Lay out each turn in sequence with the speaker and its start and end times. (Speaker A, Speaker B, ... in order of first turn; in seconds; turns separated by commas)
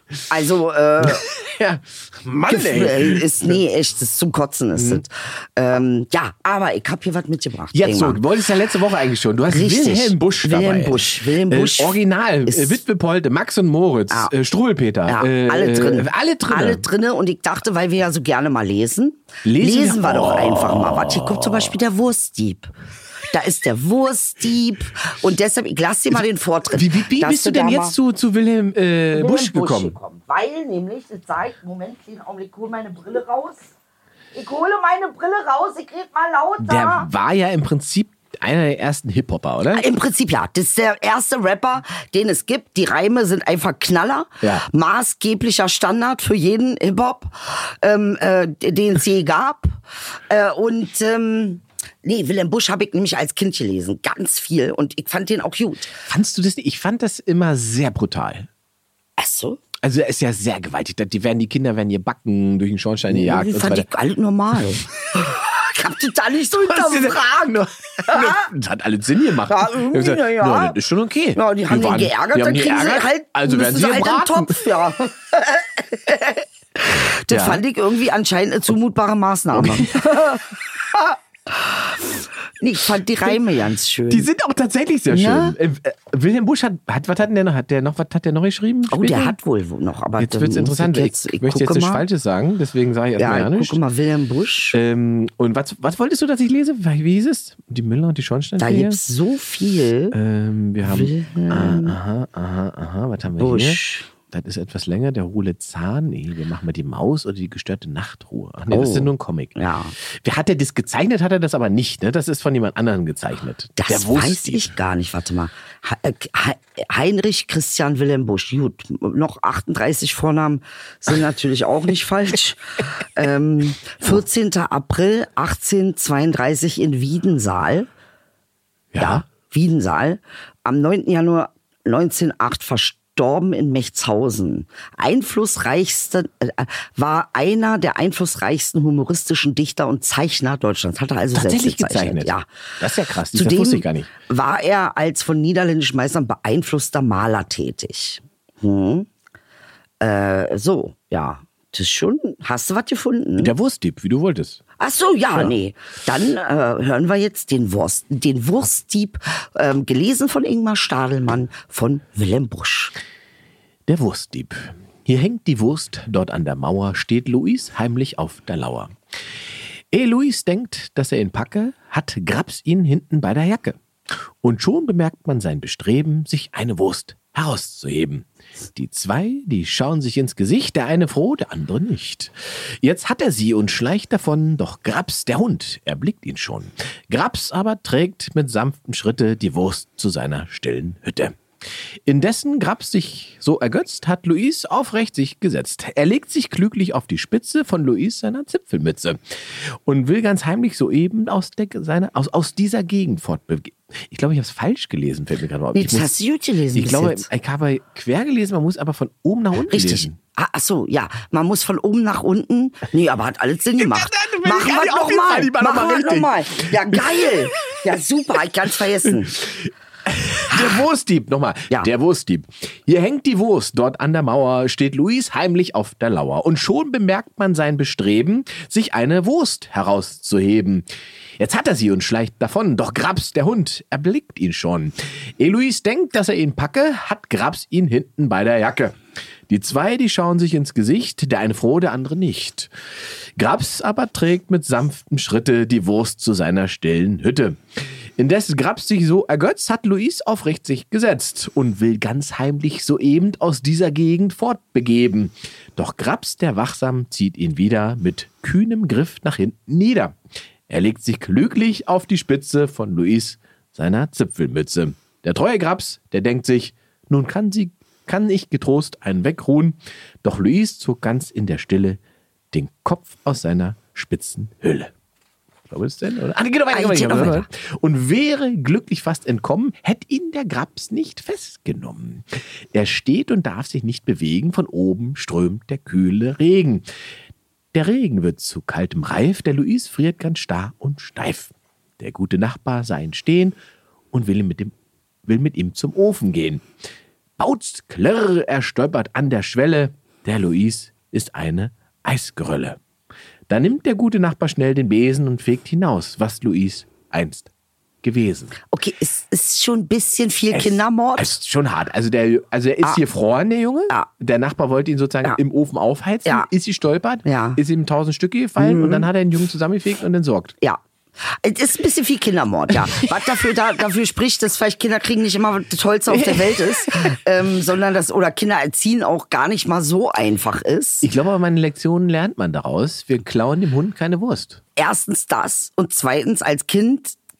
Speaker A: 0.3-1.2, Speaker B: 1.0-3.6, Speaker A: 2.5-8.2, Speaker B: 4.8-5.0, Speaker B: 7.7-16.8, Speaker A: 9.5-12.8, Speaker A: 15.1-22.7, Speaker B: 19.4-21.8, Speaker A: 23.3-27.9, Speaker B: 26.7-29.9, Speaker A: 29.1-33.7, Speaker A: 34.3-37.1, Speaker B: 36.6-39.8, Speaker A: 39.7-55.9, Speaker B: 56.1-58.5, Speaker A: 59.2-59.6, Speaker B: 59.8-63.9, Speaker A: 63.1-68.5, Speaker B: 66.6-74.6, Speaker A: 69.5-70.8, Speaker A: 71.3-84.3, Speaker B: 77.1-77.6, Speaker B: 79.5-80.1, Speaker B: 84.1-89.3, Speaker A: 85.1-85.5, Speaker A: 88.9-92.0, Speaker B: 90.2-93.8, Speaker A: 93.2-94.8, Speaker B: 94.7-99.0, Speaker A: 98.6-100.2, Speaker B: 100.1-114.7, Speaker A: 100.8-102.0, Speaker A: 103.4-104.1, Speaker A: 108.7-110.0, Speaker A: 113.8-127.9, Speaker B: 128.9-129.2, Speaker A: 129.0-142.5, Speaker B: 141.3-144.1, Speaker A: 143.3-149.1, Speaker A: 150.0-153.5, Speaker B: 153.4-154.6, Speaker A: 154.8-162.9, Speaker B: 163.9-168.9, Speaker B: 169.9-173.8, Speaker B: 174.4-191.4, Speaker B: 192.0-206.1, Speaker A: 205.7-207.3, Speaker B: 206.7-210.2, Speaker A: 209.7-219.4, Speaker B: 213.8-217.3, Speaker B: 219.4-230.9, Speaker A: 220.5-220.8, Speaker B: 231.4-238.9, Speaker B: 239.5-242.7, Speaker B: 243.4-247.6, Speaker B: 248.2-260.2, Speaker B: 260.7-272.0, Speaker B: 272.5-274.9, Speaker B: 275.7-286.8, Speaker A: 276.7-277.5, Speaker B: 287.7-293.5, Speaker B: 294.1-294.7, Speaker B: 295.2-296.6, Speaker B: 297.4-302.8, Speaker B: 303.5-307.5, Speaker B: 308.0-308.5, Speaker A: 308.7-311.4, Speaker B: 310.5-320.6, Speaker A: 317.2-317.6, Speaker A: 318.6-319.1, Speaker A: 321.4-331.1, Speaker B: 326.1-327.1, Speaker B: 331.0-334.6, Speaker A: 334.8-337.2